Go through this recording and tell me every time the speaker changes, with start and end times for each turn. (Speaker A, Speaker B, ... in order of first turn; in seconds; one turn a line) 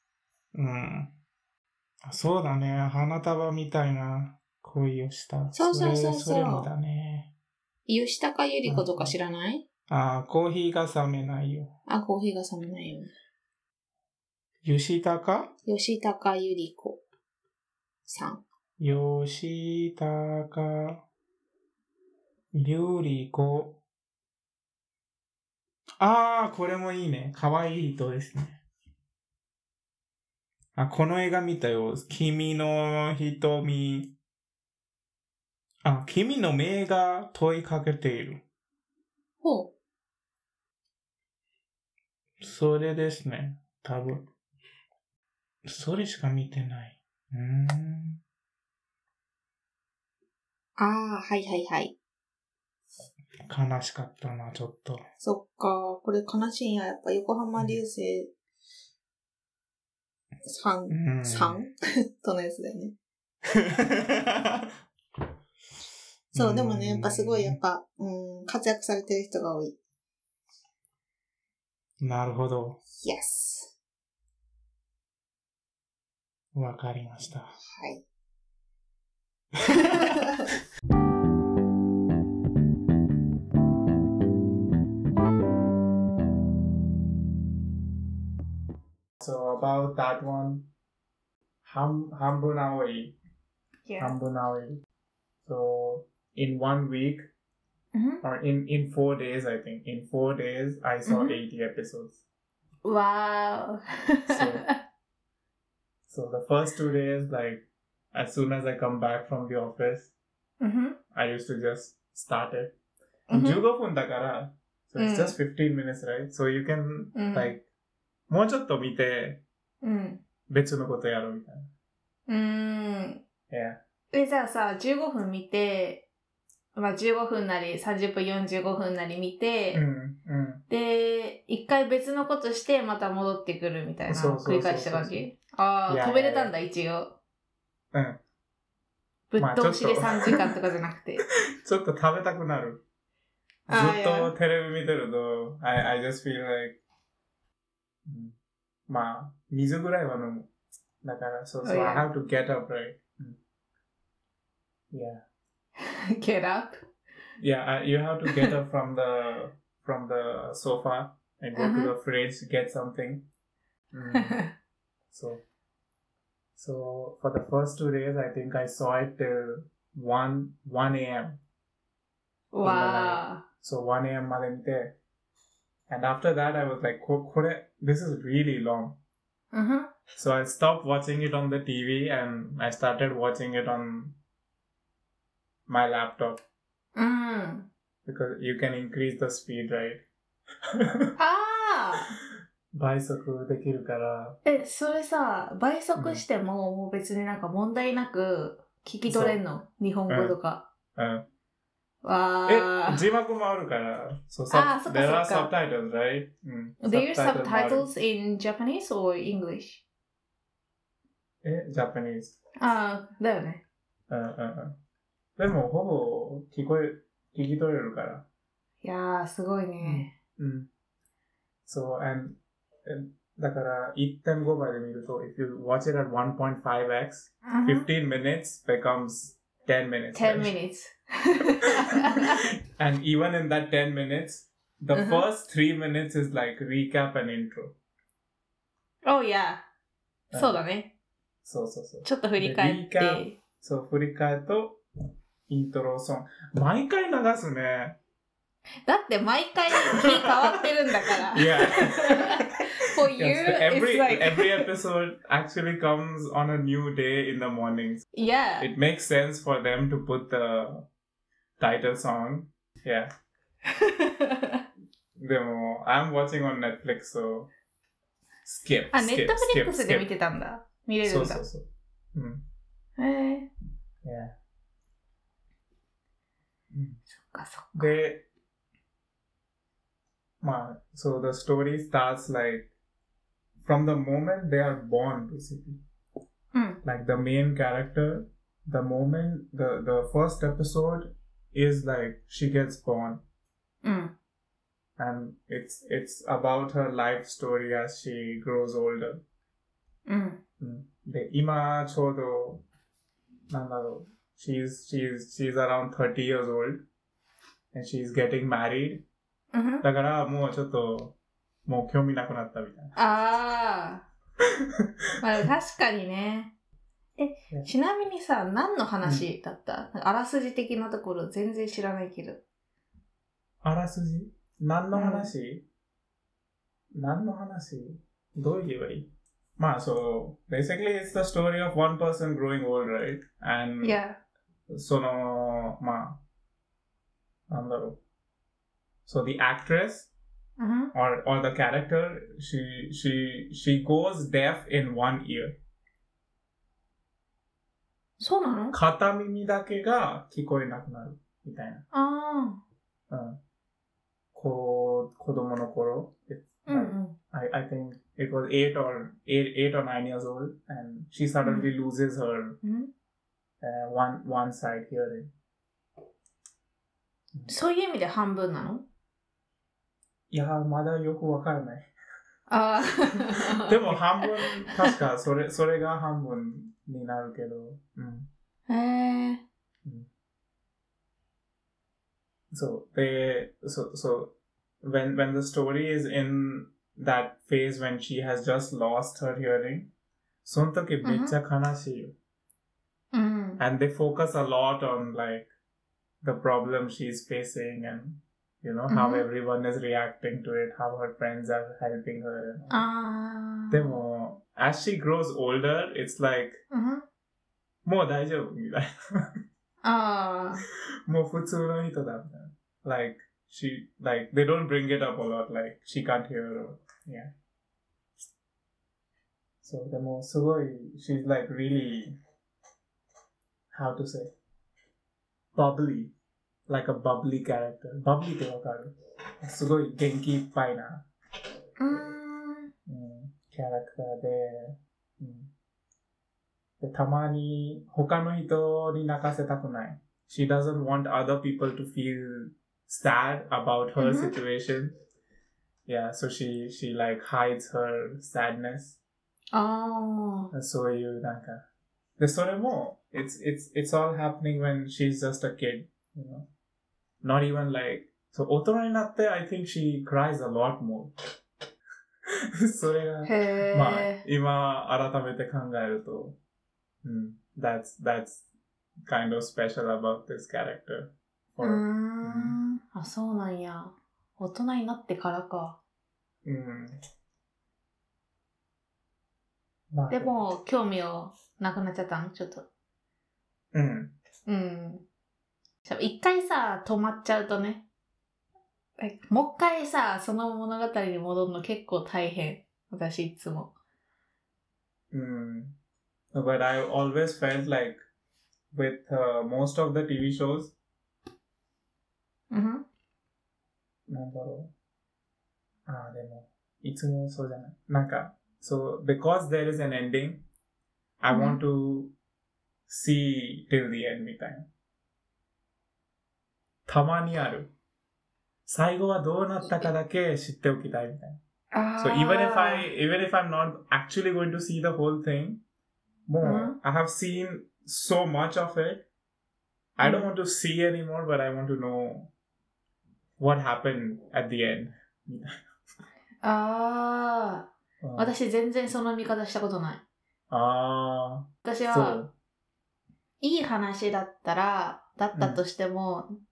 Speaker A: 0.5-1.1
Speaker A: 2.0-7.3
Speaker B: 5.5-6.7
Speaker B: 7.9-9.6
Speaker A: 8.7-9.2
Speaker A: 9.9-11.7
Speaker B: 11.9-13.1
Speaker A: 14.6-15.6
Speaker B: 15.7-17.0
Speaker B: 18.1-18.4
Speaker A: 18.8-21.0
Speaker A: 22.5-23.8
Speaker A: 26.0-28.6
Speaker A: 30.8-34.1
Speaker A: 35.8-38.4
Speaker B: 39.4-39.7
Speaker A: 42.4-44.3
Speaker A: 45.6-48.2
Speaker B: 50.8-52.0
Speaker A: 53.5-55.1
Speaker B: 55.2-58.3
Speaker A: 57.6-57.8
Speaker B: 60.5-63.0
Speaker A: 60.9-61.7
Speaker A: 63.5-64.7
Speaker A: 66.3-67.6
Speaker B: 66.3-69.8
Speaker A: 72.0-72.8
Speaker B: 73.0-73.8
Speaker A: 76.5-77.6
Speaker B: 77.7-78.0
Speaker B: 79.7-80.4
Speaker A: 79.8-80.0
Speaker A: 89.2-90.7
Speaker A: 91.6-93.2
Speaker B: 93.9-94.2
Speaker A: 94.0-94.8
Speaker A: 95.4-97.3
Speaker B: 97.9-98.2
Speaker A: 98.2-102.2
Speaker B: 101.1-101.4
Speaker B: 102.8-104.7
Speaker A: 104.3-104.7
Speaker A: 106.1-110.1
Speaker B: 110.6-111.0
Speaker A: 111.1-112.8
Speaker B: 113.3-113.6
Speaker A: 113.3-117.7
Speaker B: 115.0-115.4
Speaker B: 117.1-117.5
Speaker A: 118.3-119.4
Speaker B: 119.8-120.2
Speaker A: 120.5-121.7
Speaker B: 122.3-123.2
Speaker A: 123.5-123.8
Speaker B: 124.1-126.1
Speaker B: 126.8-129.8
Speaker A: 129.7-130.6
Speaker B: 130.7-137.2
Speaker A: 134.1-135.3
Speaker A: 135.9-136.5
Speaker A: 137.9-138.2
Speaker B: 139.3-141.2
Speaker A: 139.4-140.4
Speaker A: 141.6-142.8
Speaker B: 143.7-144.3
Speaker A: 143.7-146.8
Speaker A: 148.1-148.3
Speaker A: 148.9-150.5
Speaker A: 151.0-153.4
Speaker B: 151.6-152.1
Speaker A: 154.9-155.2
Speaker B: 155.8-156.8
Speaker A: 157.4-163.3
Speaker B: 158.3-158.5
Speaker B: 161.6-161.9
Speaker A: 163.9-164.4
Speaker B: 164.1-164.5
Speaker A: 165.1-165.4
Speaker A: 166.6-171.4
Speaker B: 172.5-173.4
Speaker A: 172.6-175.0
Speaker A: 175.9-179.0
Speaker B: 179.5-179.9
Speaker A: 180.2-184.2
Speaker A: 185.7-186.4
Speaker B: 187.0-187.7
Speaker A: 188.1-190.1
Speaker A: 190.8-191.2
Speaker B: 191.2-192.2
Speaker A: 192.7-194.4
Speaker B: 194.4-200.7
Speaker A: 196.0-196.2
Speaker A: 199.1-199.4
Speaker A: 200.1-200.4
Speaker A: 200.9-201.2
Speaker B: 202.0-203.0
Speaker A: 202.5-207.9
Speaker B: 204.5-205.5
Speaker B: 206.8-209.8
Speaker A: 211.4-212.4
Speaker B: 212.6-213.6
Speaker A: 214.1-214.8
Speaker A: 215.4-218.3
Speaker B: 218.8-220.1
Speaker A: 219.8-220.7
Speaker A: 221.7-230.5
Speaker B: 227.5-227.9
Speaker B: 230.1-232.4
Speaker A: 232.8-237.8
Speaker B: 234.9-235.2
Speaker B: 239.1-239.6
Speaker A: 240.3-240.6
Speaker B: 240.3-240.9
Speaker A: 241.4-244.8
Speaker B: 242.1-243.4
Speaker A: 245.5-248.0
Speaker B: 248.9-254.7
Speaker A: 249.9-252.5
Speaker A: 253.2-258.1
Speaker B: 258.1-258.7
Speaker A: 258.6-260.9
Speaker A: 261.6-263.1
Speaker B: 263.8-264.6
Speaker A: 265.2-267.5
Speaker A: 268.4-270.1
Speaker B: 268.9-271.4
Speaker A: 271.0-272.4
Speaker B: 273.0-273.5
Speaker A: 274.0-274.4
Speaker A: 276.7-277.0
Speaker B: 277.2-278.0
Speaker A: 277.8-278.3
Speaker A: 280.4-282.7
Speaker A: 283.6-285.8
Speaker B: 286.5-286.8
Speaker A: 286.8-293.2
Speaker B: 293.8-294.1
Speaker A: 295.0-299.2
Speaker B: 300.1-300.4
Speaker A: 300.6-302.6
Speaker A: 303.5-306.9
Speaker A: 307.7-309.1
Speaker B: 309.5-309.9
Speaker A: 309.8-313.0
Speaker B: 313.0-314.1
Speaker B: 315.2-316.5
Speaker B: 317.2-322.4
Speaker A: 323.6-325.7
Speaker B: 324.9-325.3
Speaker A: 326.9-334.0
Speaker B: 333.8-334.2
Speaker A: 334.7-336.2
Speaker A: 337.5-338.0
Speaker A: 339.1-340.1
Speaker B: 340.6-340.9
Speaker A: 340.9-345.6
Speaker B: 348.2-348.8
Speaker A: 348.7-351.8
Speaker B: 351.9-352.6
Speaker A: 353.1-353.4
Speaker A: 354.3-362.6
Speaker B: 356.7-357.2
Speaker B: 361.4-361.7
Speaker B: 362.6-362.9
Speaker A: 363.6-365.3
Speaker B: 367.5-368.9
Speaker A: 370.3-371.9
Speaker B: 372.5-374.8
Speaker A: 373.6-378.3
Speaker B: 378.7-379.4
Speaker A: 382.5-389.9
Speaker A: 390.4-392.2
Speaker B: 391.0-391.3
Speaker B: 393.1-393.6
Speaker A: 393.6-395.5
Speaker A: 396.2-402.8
Speaker B: 398.9-399.3
Speaker B: 402.7-404.0
Speaker A: 403.7-406.6
Speaker B: 406.7-407.0
Speaker A: 407.9-408.9
Speaker B: 409.8-410.6
Speaker A: 411.1-417.3
Speaker A: 419.6-422.1
Speaker A: 423.7-424.3
Speaker A: 425.6-426.1
Speaker A: 426.7-431.1
Speaker B: 431.8-432.7
Speaker A: 432.9-435.5
Speaker A: 436.8-444.9
Speaker B: 444.0-444.4
Speaker A: 445.9-449.0
Speaker B: 449.5-450.5
Speaker A: 450.5-451.6
Speaker A: 452.2-456.5
Speaker A: 457.2-461.1
Speaker A: 462.6-466.4
Speaker B: 463.2-464.2
Speaker A: 467.0-468.4
Speaker A: 469.1-472.6
Speaker B: 471.6-475.8
Speaker A: 476.4-476.9
Speaker A: 479.9-480.5
Speaker B: 480.1-482.7
Speaker A: 483.7-484.2
Speaker B: 484.5-485.1
Speaker B: 485.9-487.8
Speaker B: 489.0-493.7
Speaker A: 495.1-495.8
Speaker A: 496.3-498.0
Speaker A: 498.7-500.7
Speaker B: 502.5-502.9
Speaker A: 504.1-504.7
Speaker A: 505.9-510.5
Speaker A: 511.2-512.1
Speaker B: 511.3-511.6
Speaker A: 512.9-514.7
Speaker A: 516.9-517.7
Speaker A: 518.7-521.4
Speaker B: 519.6-519.9
Speaker B: 521.7-522.9
Speaker A: 522.0-525.6
Speaker A: 526.3-529.1
Speaker B: 526.4-526.8
Speaker A: 530.0-532.3
Speaker B: 530.0-530.3
Speaker A: 533.4-535.6
Speaker B: 536.4-540.0
Speaker A: 538.0-538.4
Speaker A: 540.5-542.3
Speaker B: 541.6-542.2
Speaker B: 543.4-546.3
Speaker A: 545.3-545.6